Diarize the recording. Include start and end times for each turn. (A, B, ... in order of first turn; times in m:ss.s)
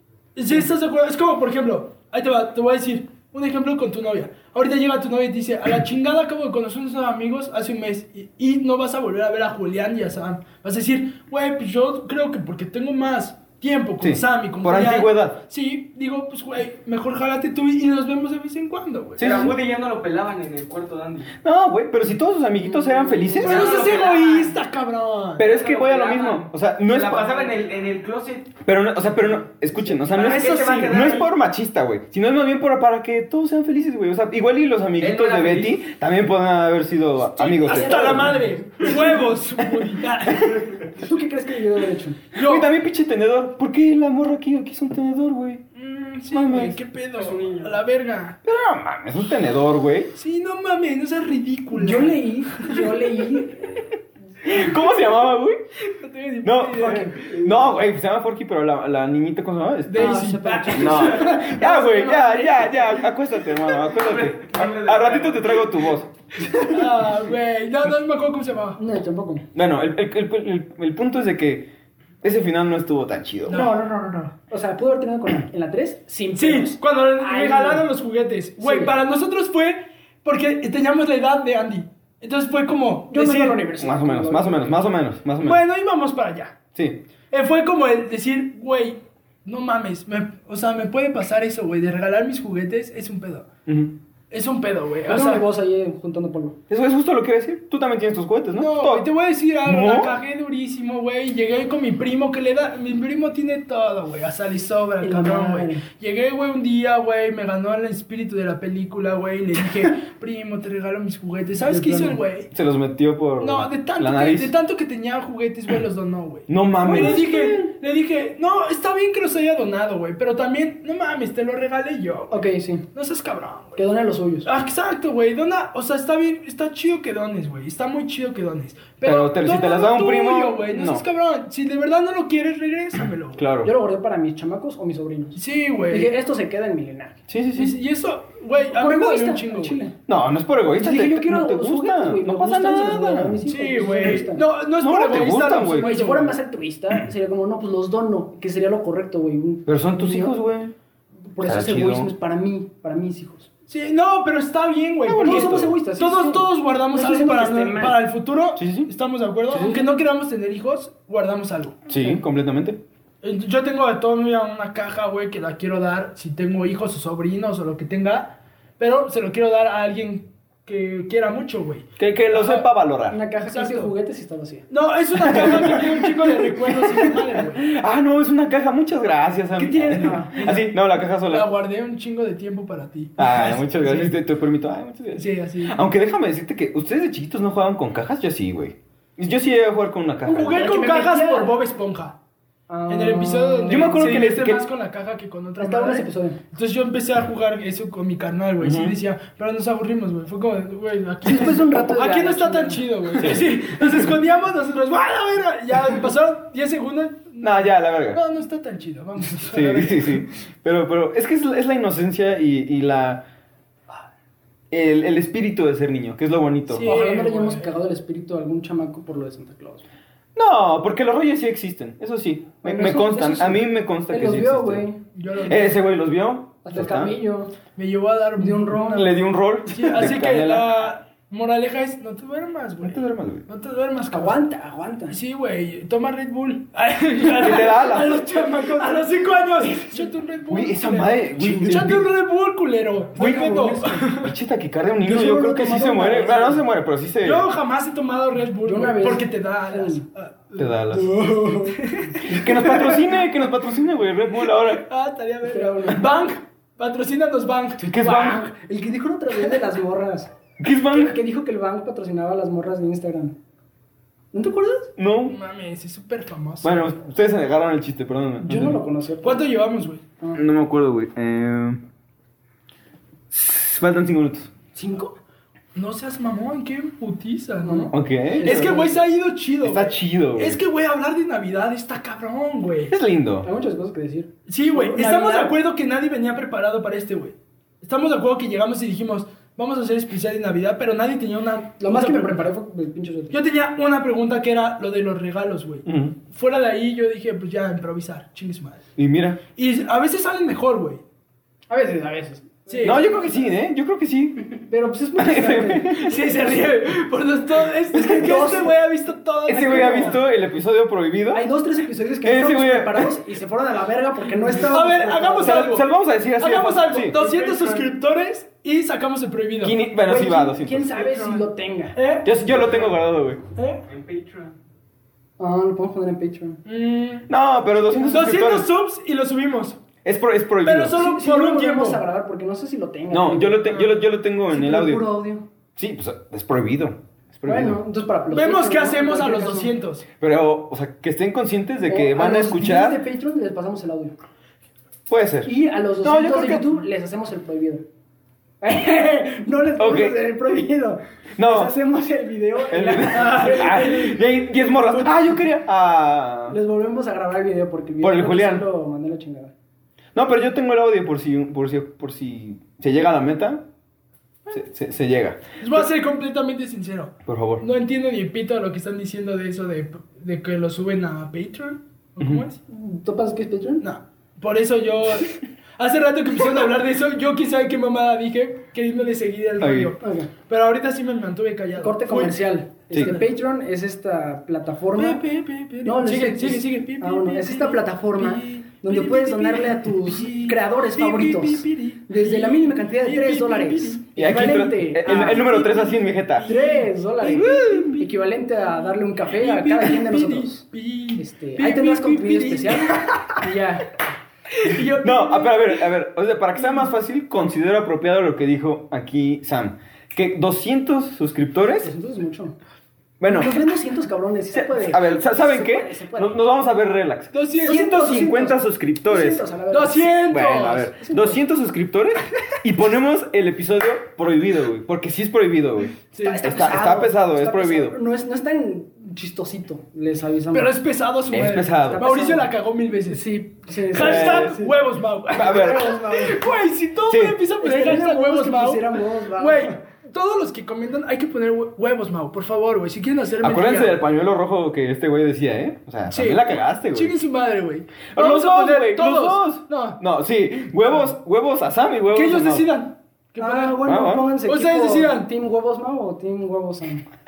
0:00.4-0:19.5 A
0:14.0-0:15.4 B
0:19.2-0:19.5 B
0:19.2-0:21.3 C
0:21.4-0:23.7 B
0:22.8-0:23.3 D
0:23.3-0:24.6 C
0:23.4-0:25.5 A
0:25.4-0:27.5 B
0:25.4-0:28.6 C
0:28.6-0:38.5 B
0:29.9-0:31.3 C
0:30.1-0:31.2 A
0:35.0-0:35.8 C
0:37.4-0:40.9 A
0:37.6-0:39.1 D
0:40.8-0:42.2 D
0:42.3-0:42.7 A
0:42.4-0:45.6 B
0:45.8-0:48.4 A
0:46.3-0:46.8 B
0:47.2-0:47.8 D
0:48.4-0:50.1 B
0:50.2-0:52.9 A
0:51.7-0:53.9 D
0:54.4-0:55.6 B
0:55.8-0:57.2 A
0:56.4-1:06.4 B
0:56.8-0:57.5 D
0:59.9-1:02.5 A
1:00.0-1:02.9 D
1:04.0-1:05.6 C
1:06.5-1:08.8 A
1:08.8-1:09.5 D
1:09.5-1:11.7 B
1:12.2-1:13.6 B
1:13.5-1:13.8 A
1:13.5-1:17.9 D
1:16.4-1:23.6 A
1:18.6-1:18.9 D
1:23.1-1:24.8 D
1:23.8-1:25.6 B
1:25.4-1:26.6 A
1:26.8-1:27.0 B
1:27.3-1:33.5 A
1:33.7-1:33.9 B
1:34.3-1:35.4 A
1:35.1-1:36.6 D
1:36.7-1:39.1 B
1:38.5-1:52.5 A
1:39.6-1:40.2 B
1:45.0-1:45.8 D
1:51.6-1:52.2 D
1:52.5-1:54.5 B
1:53.4-2:03.9 A
1:56.5-1:57.7 B
1:56.9-1:57.2 D
2:02.3-2:02.9 D
2:03.8-2:04.5 D
2:04.4-2:13.5 A
2:09.0-2:11.0 B
2:13.4-2:13.7 B
2:13.6-2:17.2 D
2:15.4-2:16.1 A
2:17.3-2:17.8 B
2:17.5-2:19.8 A
2:18.7-2:20.0 D
2:20.1-2:23.4 B
2:20.7-2:24.5 D
2:23.4-2:26.4 A
2:24.8-2:26.0 B
2:25.7-2:30.4 D
2:29.7-2:30.7 B
2:31.3-2:33.5 D
2:31.4-2:32.1 B
2:33.7-2:41.8 A
2:35.1-2:35.7 B
2:35.2-2:38.1 D
2:38.6-2:38.9 B
2:39.5-2:39.8 D
2:41.9-2:42.8 B
2:41.9-2:42.2 D
2:43.2-2:52.6 A
2:52.0-2:53.2 B
2:53.1-2:54.7 D
2:53.5-2:53.9 A
2:54.7-2:57.7 A
2:55.2-3:01.5 B
2:59.6-3:04.2 A
3:00.0-3:00.4 D
3:03.2-3:10.6 B
3:05.2-3:05.8 A
3:10.3-3:11.5 D
3:10.3-3:12.2 A
3:12.7-3:14.0 D
3:12.9-3:30.3 A
3:13.7-3:14.7 B
3:15.6-3:16.4 D
3:18.6-3:19.0 B
3:21.2-3:23.4 D
3:23.2-3:24.1 B
3:27.4-3:28.2 B
3:29.5-3:33.3 B
3:34.7-3:36.9 B
3:36.7-3:37.7 A
3:36.8-3:39.8 D
3:40.4-3:44.9 B
3:42.6-3:45.0 D
3:45.1-3:45.8 A
3:45.4-3:47.2 B
3:46.6-3:47.6 D
3:47.8-3:49.1 A
3:48.4-3:49.2 D
3:48.9-3:50.7 B
3:49.7-3:54.4 A
3:52.8-3:53.4 B
3:54.1-3:55.2 D
3:55.1-4:04.3 A
3:57.3-3:58.2 B
4:00.5-4:02.1 B
4:03.2-4:03.4 B
4:03.2-4:04.0 D
4:04.0-4:07.5 B
4:05.0-4:06.6 D
4:07.2-4:10.8 A
4:08.6-4:10.0 D
4:10.6-4:11.1 B
4:10.9-4:13.0 D
4:11.7-4:12.4 A
4:12.2-4:14.8 B
4:14.6-4:18.2 A
4:15.4-4:16.1 D
4:17.8-4:18.4 B
4:17.8-4:20.3 D
4:20.6-4:21.2 B
4:20.9-4:23.4 D
4:24.3-4:24.9 D
4:25.0-4:25.4 B
4:25.2-4:27.0 A
4:26.6-4:28.8 B
4:28.4-4:29.5 D
4:29.2-4:30.0 A
4:30.4-4:31.8 B
4:33.3-4:34.5 B
4:34.8-4:35.2 D
4:35.8-4:43.0 A
4:37.6-4:39.0 D
4:37.9-4:38.8 B
4:39.6-4:40.6 B
4:42.9-4:43.5 B
4:43.4-4:45.6 D
4:44.5-4:52.5 A
4:51.8-4:53.4 D
4:53.3-4:58.9 A
4:55.9-4:56.2 B
4:59.0-4:59.4 B
4:59.6-5:01.0 A
5:01.7-5:03.3 D
5:02.7-5:03.0 A
5:02.8-5:04.6 B
5:04.6-5:06.6 D
5:05.2-5:06.1 B
5:06.0-5:10.2 A
5:07.9-5:08.8 D
5:09.5-5:11.4 B
5:09.5-5:10.2 D
5:11.3-5:15.7 D
5:12.2-5:13.2 B
5:14.7-5:15.9 A
5:15.4-5:17.2 B
5:16.4-5:19.8 A
5:17.1-5:17.9 C
5:19.6-5:21.0 B
5:20.0-5:22.8 D
5:20.9-5:21.5 C
5:22.0-5:22.4 A
5:22.2-5:23.4 B
5:23.6-5:23.8 A
5:23.9-5:24.5 C
5:25.4-5:26.6 D
5:26.6-5:27.3 A
5:27.3-5:28.7 B
5:28.0-5:29.8 A
5:30.0-5:31.0 B
5:30.6-5:32.0 A
5:30.9-5:35.5 D
5:33.1-5:35.0 B
5:35.8-5:37.8 B
5:37.5-5:39.7 D
5:38.3-5:40.1 A
5:40.2-5:43.0 B
5:41.9-5:44.2 D
5:45.1-5:46.8 B
5:45.4-5:47.8 D
5:48.6-5:55.2 D
5:49.8-5:50.2 B
5:51.4-5:51.7 B
5:52.7-5:56.6 B
5:53.4-5:53.8 A
5:56.5-5:59.5 D
5:58.0-5:58.7 B
6:00.2-6:03.7 B
6:04.5-6:05.4 B
6:05.6-6:12.6 A
6:07.3-6:07.7 B
6:12.7-6:13.8 D
6:13.8-6:22.4 A
6:19.6-6:19.9 B
6:20.0-6:20.3 D
6:21.8-6:25.2 D
6:23.0-6:23.2 A
6:25.0-6:34.0 A
6:25.8-6:43.9 D
6:34.2-6:36.5 B
6:35.0-6:43.1 A
6:44.5-6:45.9 A
6:44.9-6:51.9 B
6:51.8-6:52.6 D
6:53.2-6:53.6 B
6:53.2-6:56.4 D
6:54.5-6:59.4 B
6:57.3-6:57.9 A
6:57.6-7:01.4 D
6:59.7-7:00.9 A
7:00.2-7:08.0 B
7:06.1-7:06.4 A
7:06.2-7:10.7 D
7:10.5-7:13.3 A
7:11.3-7:12.1 B
7:11.8-7:12.5 D
7:13.1-7:14.8 D
7:13.9-7:24.0 A
7:14.0-7:14.5 B
7:15.3-7:16.5 D
7:15.4-7:15.9 B
7:17.1-7:17.4 B
7:17.6-7:19.7 D
7:23.4-7:27.2 B
7:26.1-7:30.0 A
7:28.1-7:32.7 B
7:32.1-7:33.8 A
7:33.4-7:37.0 D
7:33.8-7:34.3 B
7:34.4-7:35.3 A